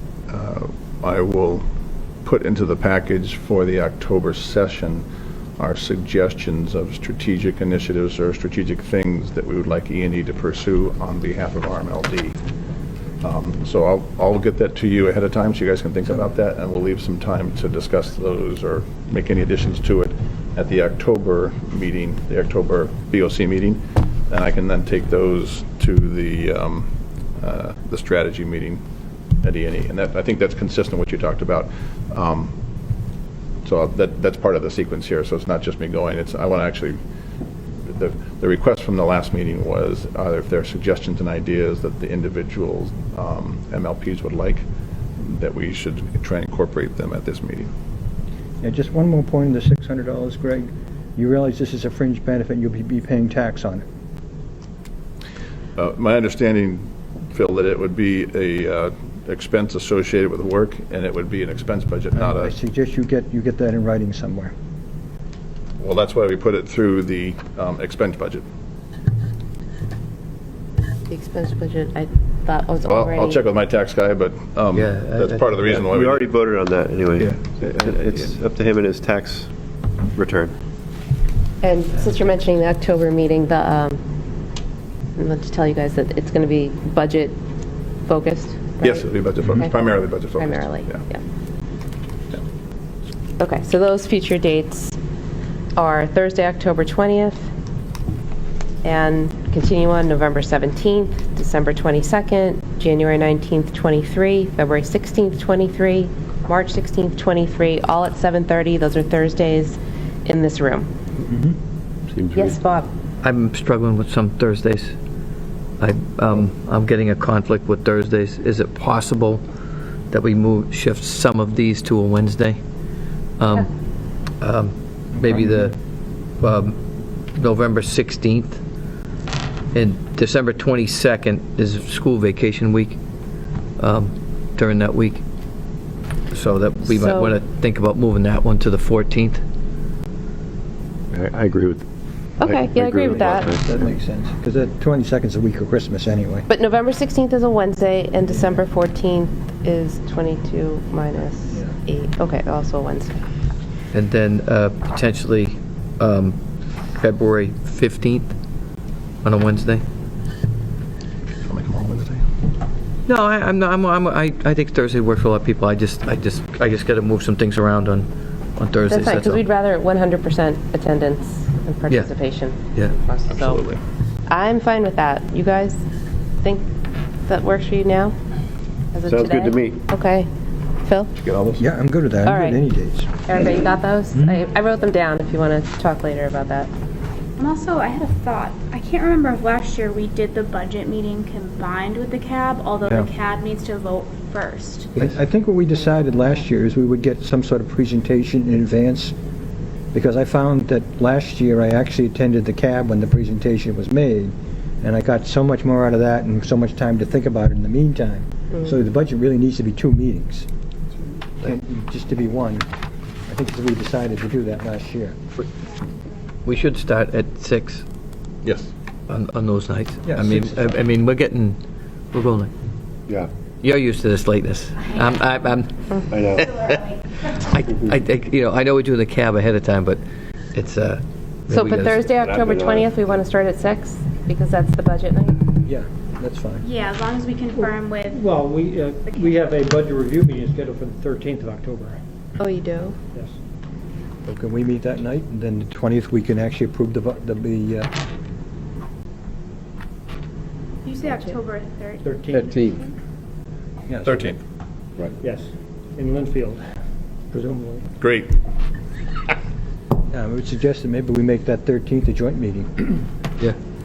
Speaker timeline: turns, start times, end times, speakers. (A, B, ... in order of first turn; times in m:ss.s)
0:00.3-0:01.6 A
0:02.2-0:05.0 A
0:05.6-0:12.4 A
0:13.2-0:28.8 A
0:29.4-0:32.6 A
0:33.6-0:37.0 A
0:37.9-0:44.6 A
0:45.2-0:47.7 A
0:48.6-0:53.8 B
0:55.8-1:02.5 A
1:02.1-1:04.5 B
1:05.8-1:08.4 A
1:11.1-1:13.4 C
1:12.8-1:16.4 A
1:14.7-1:15.8 D
1:15.6-1:19.5 E
1:17.2-1:18.2 D
1:20.0-1:20.5 E
1:21.6-1:24.0 C
1:25.2-1:27.4 C
1:28.0-1:31.2 C
1:28.8-1:31.0 A
1:33.4-1:35.0 C
1:35.8-1:37.4 C
1:38.8-1:50.9 C
1:51.3-1:51.5 B
1:52.1-1:52.6 E
1:52.3-1:52.9 C
1:53.2-1:54.9 D
1:55.8-1:59.4 D
2:00.1-2:02.6 D
2:03.4-2:03.7 D
2:04.4-2:05.8 D
2:06.4-2:06.8 D
2:07.3-2:08.6 D
2:09.7-2:13.0 D
2:13.8-2:15.2 D
2:16.3-2:19.4 D
2:16.9-2:17.4 C
2:21.1-2:21.8 E
2:22.4-2:23.8 E
2:22.4-2:23.5 C
2:23.4-2:26.4 B
2:26.5-2:33.2 C
2:33.9-2:36.4 D
2:37.0-2:38.3 D
2:39.2-2:39.8 D
2:41.4-2:42.2 A
2:43.1-2:49.4 D
2:48.9-2:53.6 C
2:53.3-2:53.8 A
2:54.3-2:55.8 C
2:57.2-2:58.1 C
2:58.9-3:00.3 C
2:59.0-2:59.8 E
3:00.8-3:01.1 C
3:01.2-3:01.6 A
3:01.6-3:03.1 B
3:02.2-3:02.6 C
3:03.2-3:06.7 C
3:07.4-3:14.9 F
3:15.0-3:19.1 B
3:19.9-3:30.5 B
3:31.4-3:32.6 B
3:33.3-3:35.2 B
3:36.4-3:37.8 D
3:38.4-3:38.7 A
3:39.1-3:41.6 D
3:40.0-3:40.8 B
3:42.1-3:42.5 D
3:43.6-3:50.0 D
3:46.1-3:46.4 E
3:50.5-3:52.1 D
3:51.5-3:55.5 C
3:52.2-3:53.1 E
3:55.6-3:56.7 B
3:56.6-3:58.3 F
3:58.1-4:02.0 G
4:02.4-4:02.9 C
4:04.2-4:07.9 B
4:10.8-4:12.9 F
4:12.0-4:12.4 G
4:12.3-4:12.8 D
4:13.9-4:14.3 B
4:14.0-4:14.4 A
4:15.2-4:16.6 G
4:17.3-4:17.8 G
4:18.0-4:18.3 A
4:20.1-4:23.0 B